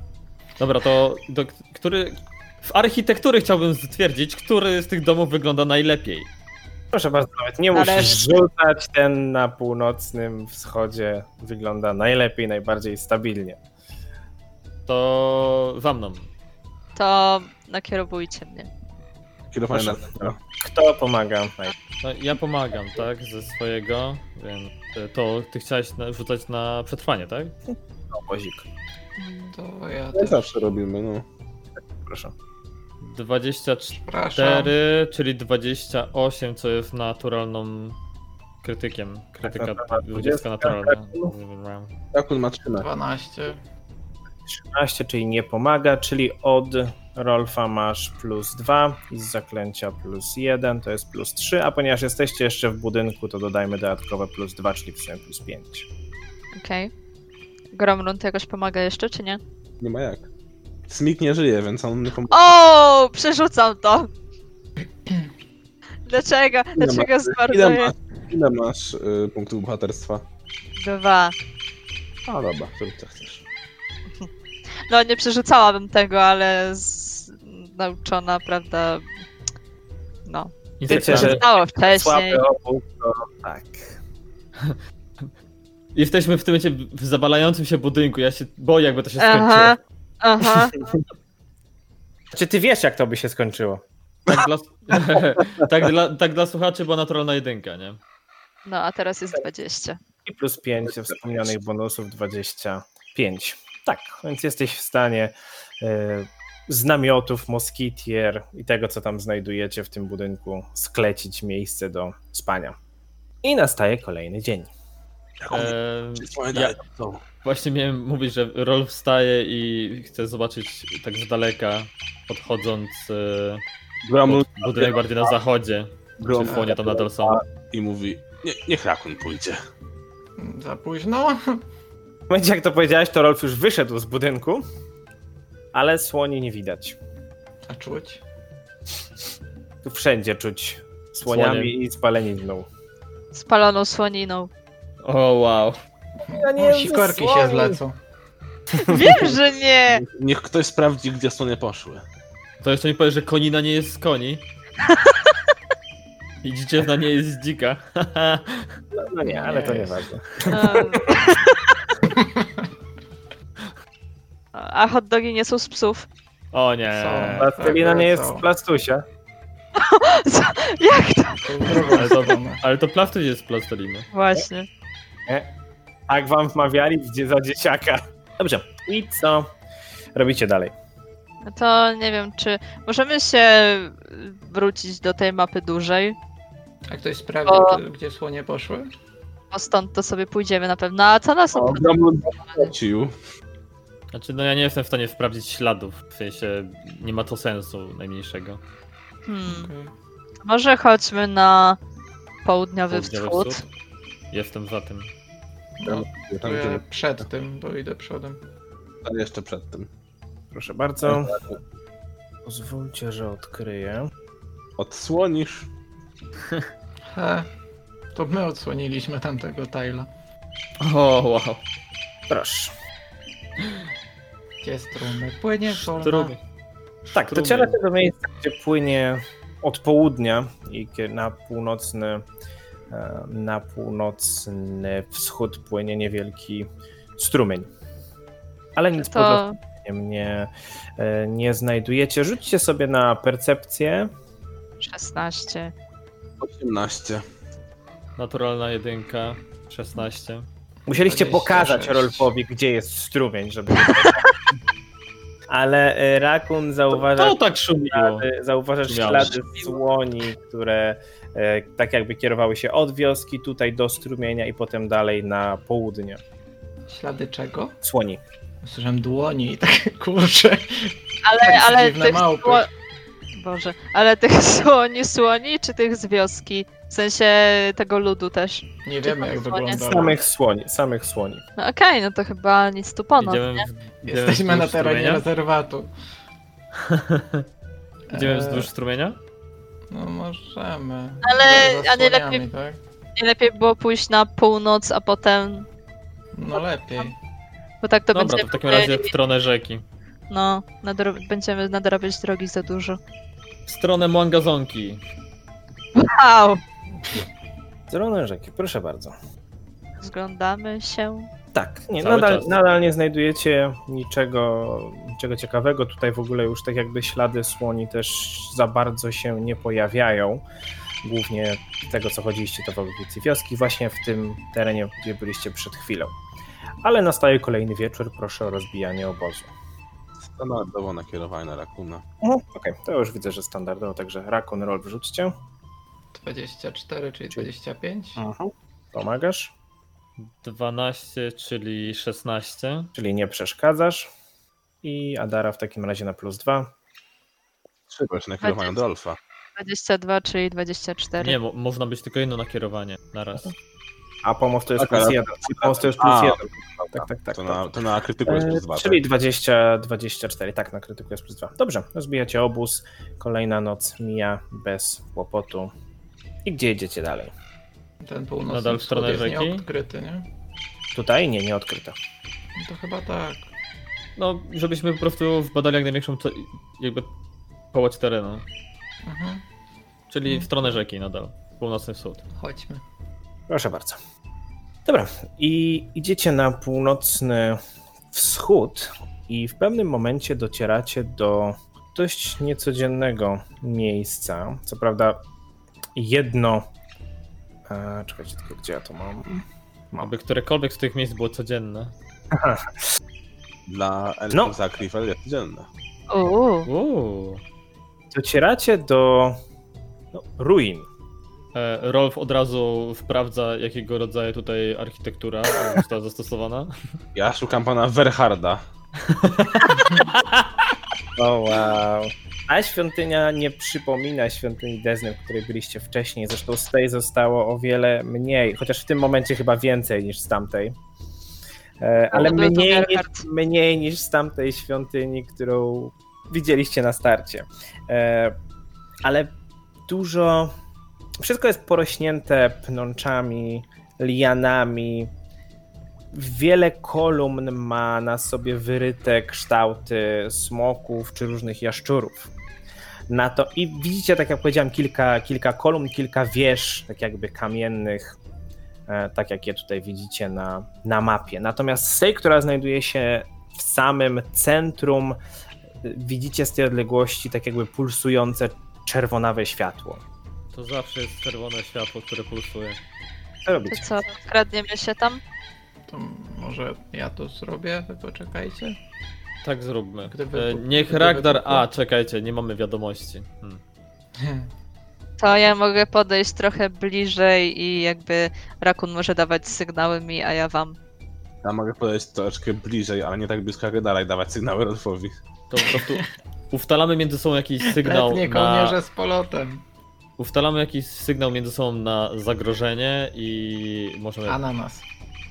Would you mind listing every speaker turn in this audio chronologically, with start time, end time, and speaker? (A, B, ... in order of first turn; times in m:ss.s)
0:00.6-0:06.3 A
0:06.9-0:13.6 B
0:07.7-0:08.4 C
0:14.9-0:16.3 A
0:17.0-0:18.7 C
0:19.5-0:20.4 D
0:19.7-0:21.7 B
0:22.0-0:27.6 A
0:27.7-0:28.6 B
0:29.2-0:29.5 C
0:29.4-0:30.6 E
0:30.1-0:31.2 D
0:32.0-0:32.3 B
0:33.0-0:38.0 A
0:33.9-0:34.7 E
0:38.6-0:41.9 A
0:39.4-0:41.3 B
0:42.1-0:42.9 D
0:42.8-0:43.6 E
0:44.5-0:55.9 B
0:56.5-0:56.9 C
0:57.7-0:59.4 C
0:59.8-1:00.3 D
1:00.9-1:02.4 D
1:02.3-1:04.1 C
1:06.1-1:07.9 C
1:06.8-1:10.2 D
1:10.8-1:11.4 C
1:12.3-1:13.4 D
1:14.9-1:19.0 C
1:20.3-1:22.4 C
1:20.8-1:21.4 A
1:20.9-1:24.0 B
1:24.6-1:25.3 A
1:26.0-1:29.8 A
1:29.2-1:30.9 C
1:32.3-1:33.8 B
1:34.3-1:38.0 A
1:38.6-1:40.0 C
1:40.3-1:52.8 B
1:53.4-1:54.7 B
1:55.4-1:57.2 D
1:55.5-1:56.8 A
1:57.4-2:03.6 A
2:04.0-2:05.3 D
2:04.3-2:07.4 A
2:06.2-2:09.6 D
2:10.4-2:11.6 E
2:12.3-2:14.6 B
2:15.7-2:17.0 B
2:17.6-2:18.2 E
2:19.8-2:22.7 B
2:21.3-2:21.7 A
2:23.3-2:24.5 C
2:25.0-2:25.8 A
2:26.2-2:28.0 E
2:26.3-2:27.8 B
2:28.7-2:29.3 E
2:28.9-2:30.0 C
2:29.9-2:32.0 D
2:32.6-2:34.4 A
2:34.9-2:35.2 C
2:36.4-2:38.7 A
2:38.9-2:41.1 B
2:39.3-2:40.0 E
2:40.5-2:41.6 C
2:42.2-2:42.7 E
2:44.5-2:46.1 C
2:46.5-2:47.5 A
2:46.9-2:48.5 E
2:47.4-2:49.0 B
2:49.8-2:52.1 C
2:51.4-2:52.6 E
2:51.9-2:54.1 A
2:54.1-2:54.7 C
2:56.1-2:59.5 B
3:00.2-3:00.7 B
3:01.4-3:06.2 C
3:06.9-3:08.9 E
3:07.5-3:07.8 C
3:09.5-3:12.7 C
3:11.5-3:13.1 D
3:14.1-3:18.6 A
3:19.3-3:19.7 C
3:19.4-3:19.9 E
3:20.4-3:21.8 C
3:22.4-3:23.6 C
3:22.9-3:23.6 A
3:24.3-3:25.1 A
3:25.8-3:28.4 E
3:25.8-3:26.8 D
3:29.0-3:29.9 D
3:30.5-3:31.4 B
3:31.1-3:31.6 D
3:32.4-3:34.1 B
3:34.8-3:35.7 D
3:37.1-3:37.5 E
3:38.1-3:40.1 E
3:40.8-3:41.6 A
3:42.3-3:42.7 B
3:44.6-3:46.4 E
3:45.9-3:46.4 A
3:47.0-3:47.8 A
3:47.1-3:52.2 B
3:52.9-3:57.7 B
3:58.8-4:04.1 B
3:59.0-3:59.6 C
4:04.8-4:05.7 C
4:06.4-4:07.2 D
4:08.2-4:10.5 A
4:10.9-4:14.2 B
4:11.0-4:12.3 E
4:13.9-4:14.2 C
4:15.5-4:26.2 B
4:17.0-4:18.3 A
4:18.8-4:19.4 A
4:26.9-4:27.8 E
4:27.8-4:28.2 B
4:28.6-4:32.7 E
4:31.2-4:32.7 C
4:33.3-4:39.8 C
4:38.8-4:40.2 E
4:39.8-4:41.4 B
4:41.6-4:43.7 C
4:43.2-4:45.2 A
4:44.0-4:45.9 E
4:46.8-4:47.5 A
4:48.1-4:48.7 E
4:48.1-4:49.2 A
4:49.9-4:52.8 E
4:51.2-4:52.4 C
4:53.2-4:55.7 C
4:56.3-4:57.2 E
4:57.8-4:59.1 C
4:58.1-4:59.8 A
5:00.3-5:03.0 C
5:03.7-5:05.0 A
5:06.0-5:06.6 C
5:07.9-5:09.2 B
5:10.0-5:11.3 C
5:11.5-5:20.4 B
5:12.0-5:12.6 A
5:21.0-5:26.1 B
5:26.8-5:29.5 B
5:30.2-5:32.0 D
5:32.2-5:35.3 B
5:36.1-5:38.2 E
5:38.2-5:38.5 D
5:38.9-5:39.5 B
5:40.2-5:42.9 A
5:43.0-5:44.1 B
5:44.8-5:46.7 B
5:47.9-5:49.2 D
5:48.4-5:48.8 C
5:49.6-5:51.4 C
5:51.2-5:53.5 A
5:54.2-5:57.7 B
5:54.8-5:56.5 D
5:57.3-5:59.0 D
5:58.2-6:05.7 B
6:06.4-6:07.3 B
6:08.0-6:10.3 E
6:08.5-6:09.7 A
6:10.9-6:12.0 B
6:12.6-6:13.5 E
6:14.2-6:17.1 A
6:17.7-6:18.4 A
6:19.0-6:19.4 E
6:20.1-6:22.2 A
6:20.3-6:20.7 E
6:22.4-6:22.8 E
6:23.5-6:24.0 B
6:24.9-6:27.6 B
6:28.1-6:35.2 B
6:36.0-6:36.7 B
6:37.7-6:40.0 B
6:40.0-6:41.9 A
6:42.3-6:42.7 B
6:43.7-6:45.7 D
6:46.1-6:46.7 C
6:46.7-6:47.4 A
6:48.1-6:49.4 B
6:50.1-6:50.9 B
6:51.5-6:56.8 A
6:57.2-6:58.6 D
6:59.1-7:00.5 A
7:01.2-7:10.8 B
7:11.8-7:18.4 B
7:12.1-7:13.2 C
7:19.0-7:19.3 B
7:19.9-7:20.5 B
7:21.2-7:25.1 B
7:26.1-7:32.3 B
7:33.1-7:38.2 B
7:38.9-7:45.2 B
7:45.8-7:50.0 B
7:50.5-7:52.8 A
7:53.5-7:53.9 B
7:53.7-7:55.2 C
7:55.9-7:58.8 E
7:59.4-8:03.6 A
8:00.1-8:01.6 E
8:04.2-8:04.5 E
8:05.2-8:10.8 C
8:11.4-8:15.1 D
8:15.5-8:18.8 A
8:15.8-8:16.1 E
8:17.6-8:19.6 E
8:20.2-8:24.4 A
8:24.3-8:24.8 E